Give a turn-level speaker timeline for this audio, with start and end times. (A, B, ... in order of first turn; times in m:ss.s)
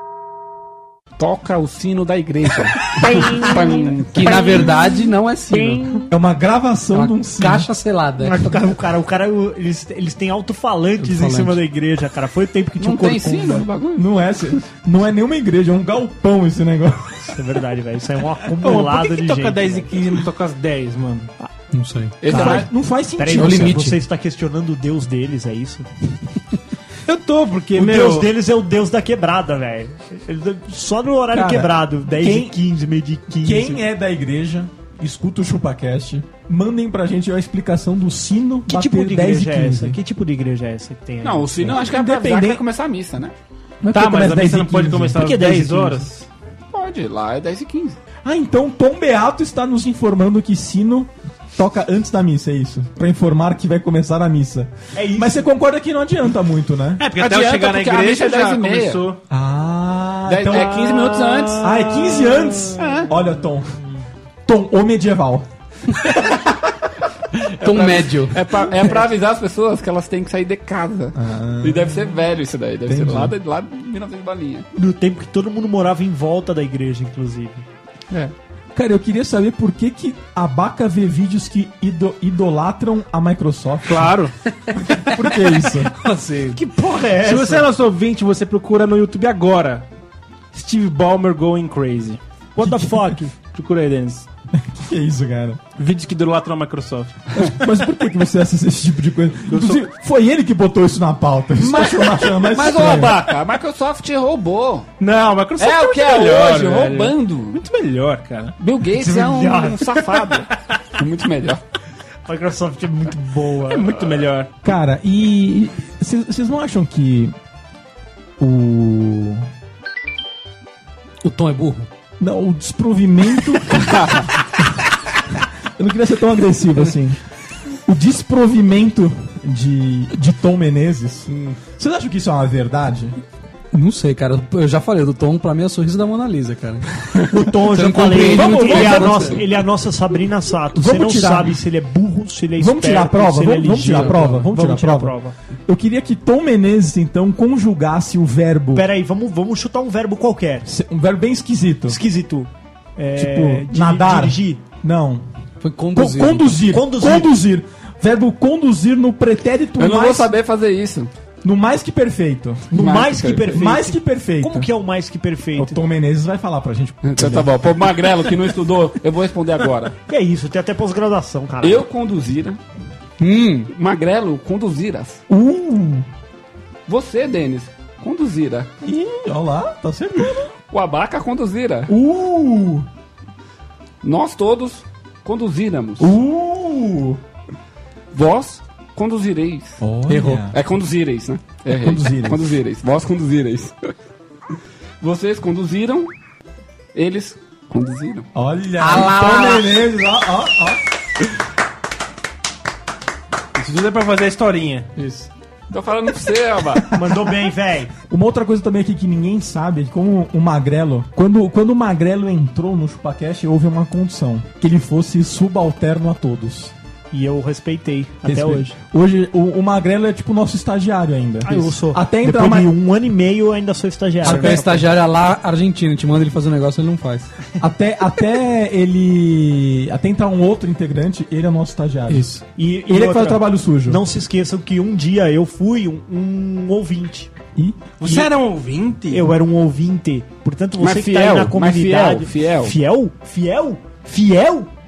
0:01.2-0:04.7 A
0:03.0-0:06.0 B
0:03.1-0:06.0 C
0:06.1-0:07.7 D
0:06.9-0:08.6 C
0:08.2-0:13.6 B
0:11.0-0:11.6 C
0:12.8-0:14.1 A
0:13.9-0:17.4 D
0:17.3-0:19.9 B
0:18.6-0:21.3 E
0:21.7-0:22.2 C
0:22.2-0:22.7 A
0:22.2-0:22.6 B
0:22.3-0:23.8 D
0:23.2-0:25.8 B
0:23.3-0:24.0 C
0:27.1-0:28.3 E
0:27.7-0:33.8 B
0:31.3-0:32.6 D
0:33.4-0:40.0 D
0:38.6-0:41.7 B
0:41.2-0:43.3 A
0:41.6-0:42.6 D
0:43.8-0:45.3 D
0:43.9-0:46.3 E
0:45.2-0:46.1 B
0:46.7-0:48.0 A
0:48.2-0:57.0 D
0:54.9-0:55.5 B
0:57.0-0:59.2 E
0:57.2-0:59.1 A
0:59.3-1:00.9 D
1:00.2-1:01.7 A
1:01.6-1:03.8 D
1:04.4-1:05.5 D
1:07.6-1:08.4 C
1:07.6-1:14.7 A
1:11.1-1:12.1 D
1:12.8-1:13.3 D
1:14.7-1:17.6 B
1:18.7-1:24.1 D
1:23.9-1:24.3 E
1:25.0-1:25.9 D
1:25.9-1:26.6 E
1:26.5-1:27.7 B
1:27.2-1:29.9 E
1:30.5-1:32.2 E
1:32.5-1:33.3 B
1:32.6-1:33.1 D
1:33.5-1:34.3 E
1:34.5-1:35.6 D
1:35.8-1:37.2 E
1:37.4-1:43.2 D
1:39.5-1:39.8 E
1:41.6-1:44.9 A
1:45.0-1:48.5 E
1:45.6-1:47.6 A
1:48.6-1:51.6 A
1:48.9-1:50.2 B
1:52.2-1:53.9 B
1:53.7-1:54.5 E
1:54.6-1:57.3 D
1:58.4-1:59.5 D
2:01.2-2:01.9 C
2:02.2-2:04.6 D
2:04.0-2:04.2 A
2:05.8-2:07.2 D
2:07.8-2:13.2 D
2:13.7-2:16.8 C
2:17.3-2:25.3 B
2:17.5-2:19.4 C
2:18.2-2:19.4 D
2:20.7-2:21.6 D
2:22.6-2:25.1 D
2:23.8-2:24.4 C
2:25.7-2:28.8 D
2:28.7-2:30.6 B
2:30.6-2:32.0 D
2:31.9-2:34.6 B
2:33.2-2:35.2 D
2:35.6-2:36.6 C
2:35.9-2:40.3 D
2:36.7-2:37.3 B
2:39.8-2:41.1 A
2:41.4-2:42.8 D
2:42.7-2:45.8 B
2:42.8-2:43.5 A
2:43.4-2:44.7 D
2:45.6-2:47.5 D
2:47.0-2:50.0 A
2:50.1-2:51.8 B
2:51.6-2:52.6 A
2:53.2-2:53.7 C
2:53.7-2:55.2 A
2:55.3-2:56.1 D
2:56.9-2:58.7 A
2:58.8-3:00.5 D
3:00.7-3:01.9 A
3:01.9-3:02.9 D
3:04.0-3:06.1 A
3:06.0-3:07.2 D
3:08.1-3:09.8 A
3:09.8-3:10.5 D
3:10.1-3:10.4 C
3:10.5-3:13.9 A
3:11.7-3:12.4 D
3:15.0-3:16.1 A
3:16.9-3:18.3 A
3:18.3-3:20.8 D
3:18.8-3:19.7 C
3:23.5-3:24.9 E
3:25.0-3:25.3 C
3:25.7-3:26.9 A
3:26.9-3:27.9 B
3:28.1-3:36.7 D
3:37.1-3:38.8 B
3:38.2-3:42.7 D
3:41.4-3:44.9 B
3:44.2-3:47.3 C
3:44.2-3:44.7 D
3:47.6-3:52.2 D
3:52.1-3:52.4 C
3:52.6-3:57.3 B
3:52.9-3:54.0 D
3:57.5-3:58.2 D
3:58.0-3:59.3 E
3:59.1-4:04.7 B
4:00.8-4:02.7 A